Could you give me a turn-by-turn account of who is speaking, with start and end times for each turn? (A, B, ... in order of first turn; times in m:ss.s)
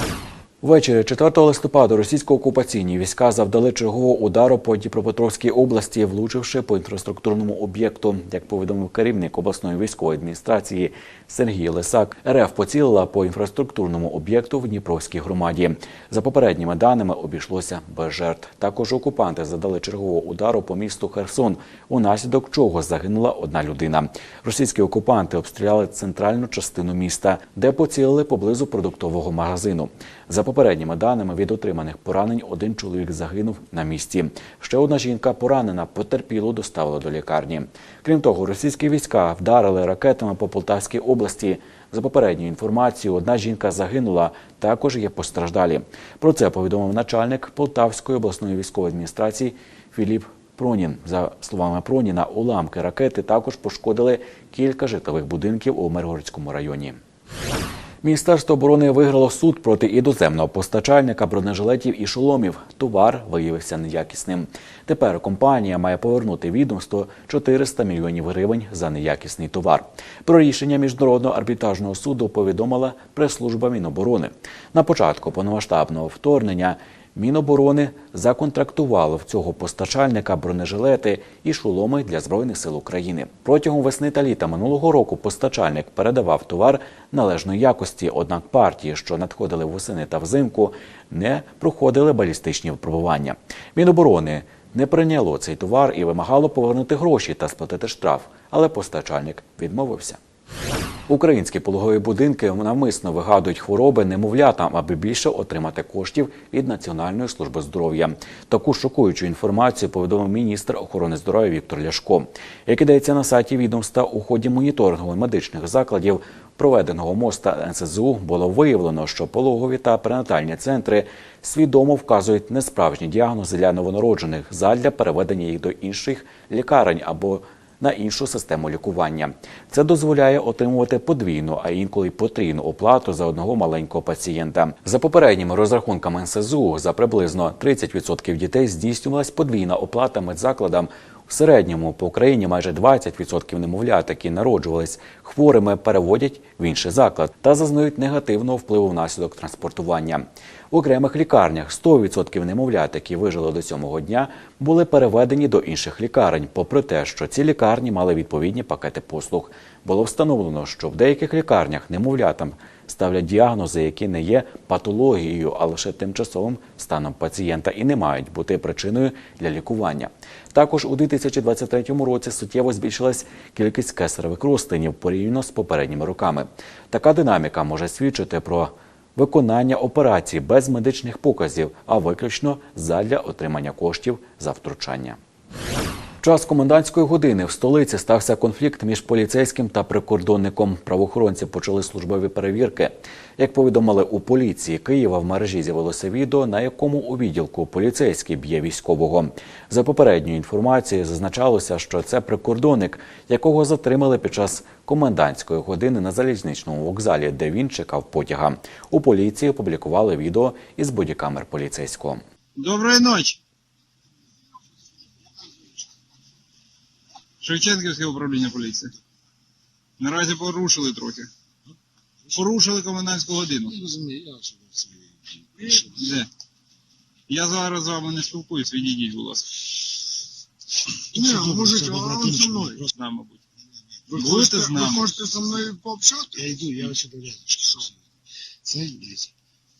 0:00.6-0:57.0 A
0:58.0-1:40.2 A
1:41.1-3:05.2 A
3:06.2-3:32.2 A
3:32.6-3:33.4 B
3:37.4-3:38.9 B
3:40.0-3:41.3 B
3:42.3-3:43.8 B
3:43.8-3:44.7 C
3:45.9-3:46.3 B
3:47.3-3:50.0 B
3:51.1-3:52.8 D
3:51.2-3:52.8 C
3:52.8-3:53.4 B
3:54.1-3:56.5 D
3:54.1-3:55.1 B
3:56.4-3:57.9 C
3:58.6-3:59.3 C